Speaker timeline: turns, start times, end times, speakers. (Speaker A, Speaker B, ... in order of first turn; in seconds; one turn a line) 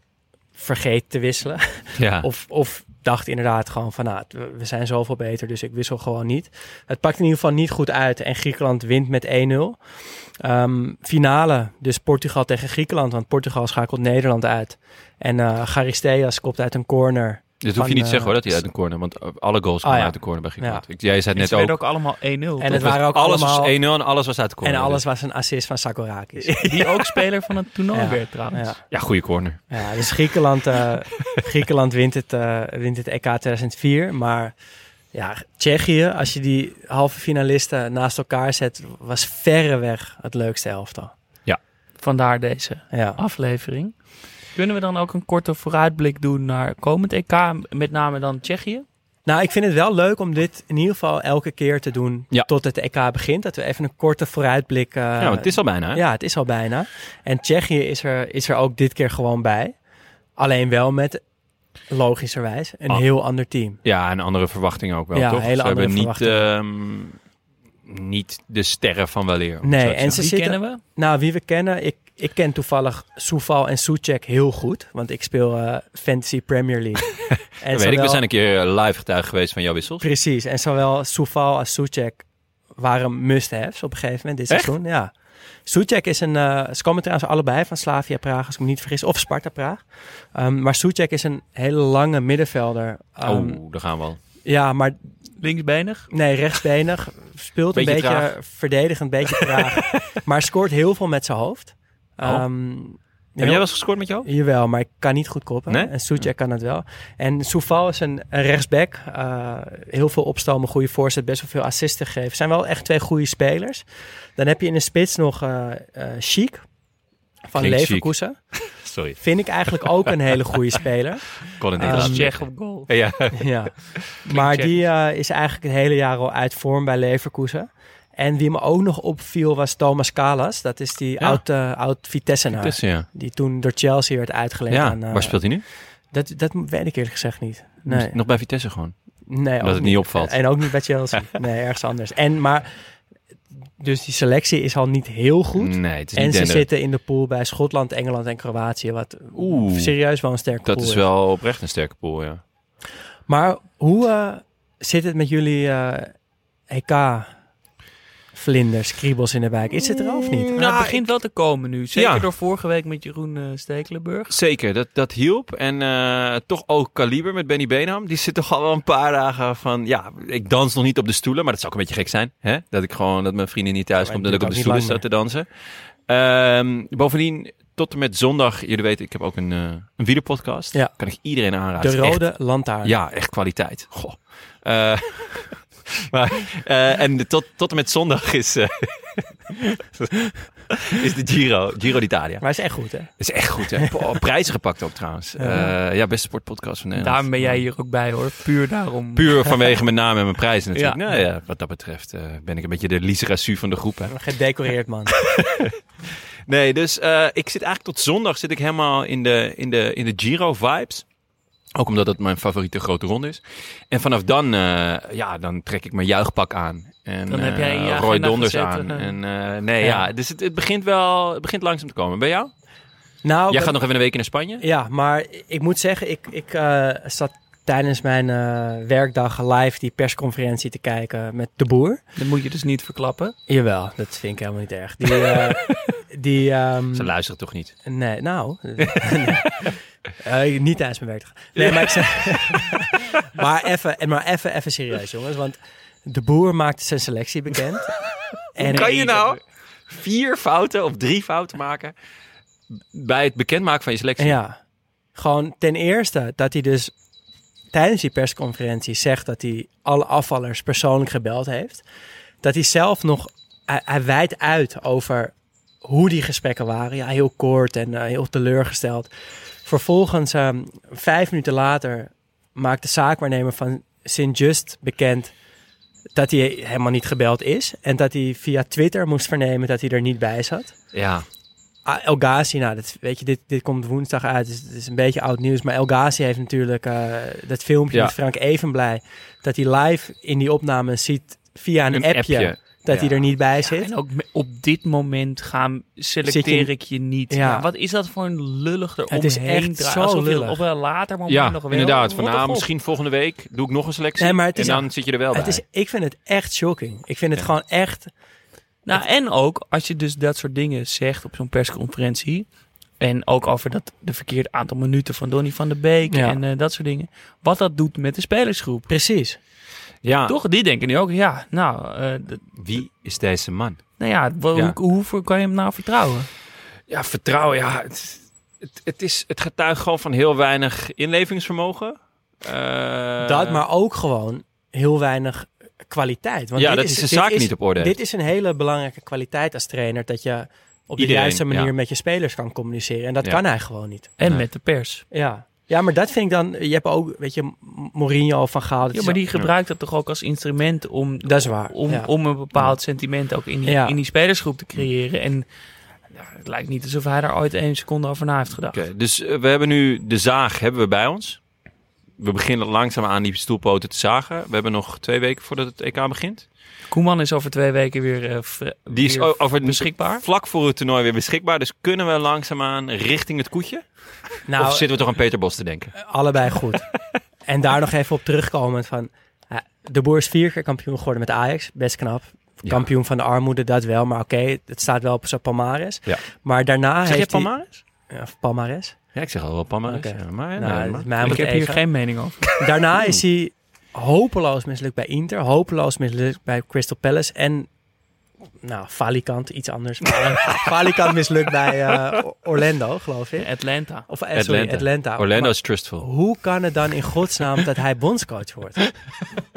Speaker A: 0.6-18.6
Speaker B: 2.0-2.3
Speaker B: 17.6-21.8
Speaker A: 19.8-20.9
Speaker C: 21.4-22.9
Speaker A: 22.6-24.0
Speaker B: 22.7-25.0
Speaker A: 24.6-26.7
Speaker B: 26.4-26.9
Speaker C: 26.6-28.7
Speaker A: 27.9-29.1
Speaker B: 28.9-29.9
Speaker A: 29.7-34.6
Speaker A: 35.1-41.1
Speaker C: 42.0-44.0
Speaker A: 42.9-43.2
Speaker C: 44.5-48.9
Speaker A: 49.3-59.8
Speaker B: 55.2-56.0
Speaker A: 60.4-61.2
Speaker A: 61.9-63.8
Speaker B: 63.8-67.2
Speaker A: 65.1-66.5
Speaker B: 67.8-70.2
Speaker A: 69.6-78.2
Speaker C: 70.1-70.8
Speaker B: 77.7-80.0
Speaker A: 80.0-82.2
Speaker A: 82.8-85.1
Speaker A: 85.7-93.7
Speaker B: 93.2-94.2
Speaker A: 94.5-95.1
Speaker C: 95.4-96.1
Speaker A: 96.1-113.8
Speaker B: 97.7-98.3
Speaker B: 103.4-104.3
Speaker B: 105.7-106.3
Speaker A: 114.4-116.7
Speaker A: 117.5-118.7
Speaker B: 117.5-119.2
Speaker A: 119.2-122.3
Speaker B: 119.8-120.2
Speaker B: 121.5-124.0
Speaker C: 121.8-122.9
Speaker A: 123.3-138.2
Speaker C: 124.2-124.8
Speaker B: 132.5-133.1
Speaker B: 134.7-135.7
Speaker B: 137.9-140.6
Speaker A: 139.3-143.0
Speaker A: 143.8-151.1
Speaker B: 145.6-146.7
Speaker B: 149.3-150.0
Speaker B: 150.6-152.4
Speaker A: 153.3-156.1
Speaker A: 156.7-157.3
Speaker A: 158.3-160.5
Speaker B: 160.1-161.2
Speaker C: 160.5-164.3
Speaker B: 161.9-162.3
Speaker B: 164.3-192.5
Speaker A: 174.0-175.0
Speaker A: 180.7-182.9
Speaker A: 192.4-193.9
Speaker B: 193.2-197.6
Speaker A: 195.4-195.7
Speaker C: 197.0-199.7
Speaker B: 199.2-204.1
Speaker C: 200.7-201.0
Speaker A: 204.1-205.2
Speaker B: 205.2-211.1
Speaker B: 211.8-222.5
Speaker C: 217.3-219.2
Speaker A: 219.8-220.1
Speaker A: 223.2-223.8
Speaker B: 223.5-224.6
Speaker A: 224.6-232.0
Speaker C: 232.2-233.3
Speaker A: 233.5-237.1
Speaker B: 236.9-237.7
Speaker A: 237.8-249.4
Speaker B: 238.8-239.7
Speaker B: 241.6-242.9
Speaker B: 248.6-251.9
Speaker B: 252.9-254.4
Speaker A: 254.2-254.6
Speaker A: 255.2-256.9
Speaker A: 257.7-261.8
Speaker A: 262.4-269.1
Speaker A: 269.6-275.3
Speaker A: 276.1-280.8
Speaker B: 280.9-281.2
Speaker A: 281.9-293.9
Speaker B: 291.9-293.2
Speaker C: 293.6-302.7
Speaker A: 296.2-296.7
Speaker A: 297.3-297.7
Speaker A: 299.1-300.6
Speaker B: 301.3-305.6
Speaker A: 304.2-308.1
Speaker C: 308.9-312.5
Speaker C: 313.0-318.9
Speaker A: 316.1-316.4
Speaker A: 318.9-319.4
Speaker B: 320.0-320.4
Speaker C: 320.3-322.4
Speaker B: 322.6-323.9
Speaker C: 324.0-326.3
Speaker B: 326.9-333.6
Speaker A: 333.2-344.1
Speaker B: 336.6-337.9
Speaker B: 341.0-341.7
Speaker C: 344.2-345.1
Speaker A: 345.1-349.2
Speaker C: 348.9-355.4
Speaker A: 351.2-352.1
Speaker A: 353.7-354.0
Speaker C: 356.1-358.8
Speaker B: 358.7-361.4
Speaker B: 362.2-366.5
Speaker C: 366.9-370.2
Speaker B: 368.9-375.9
Speaker A: 374.5-374.9
Speaker A: 375.9-376.9
Speaker A: 377.5-389.0
Speaker B: 387.0-387.8
Speaker B: 389.1-391.5
Speaker A: 389.9-391.8
Speaker C: 391.2-392.5
Speaker A: 392.6-397.7
Speaker B: 393.0-393.2
Speaker A: 398.6-403.5
Speaker C: 403.4-404.1
Speaker A: 404.1-408.9
Speaker B: 404.3-406.1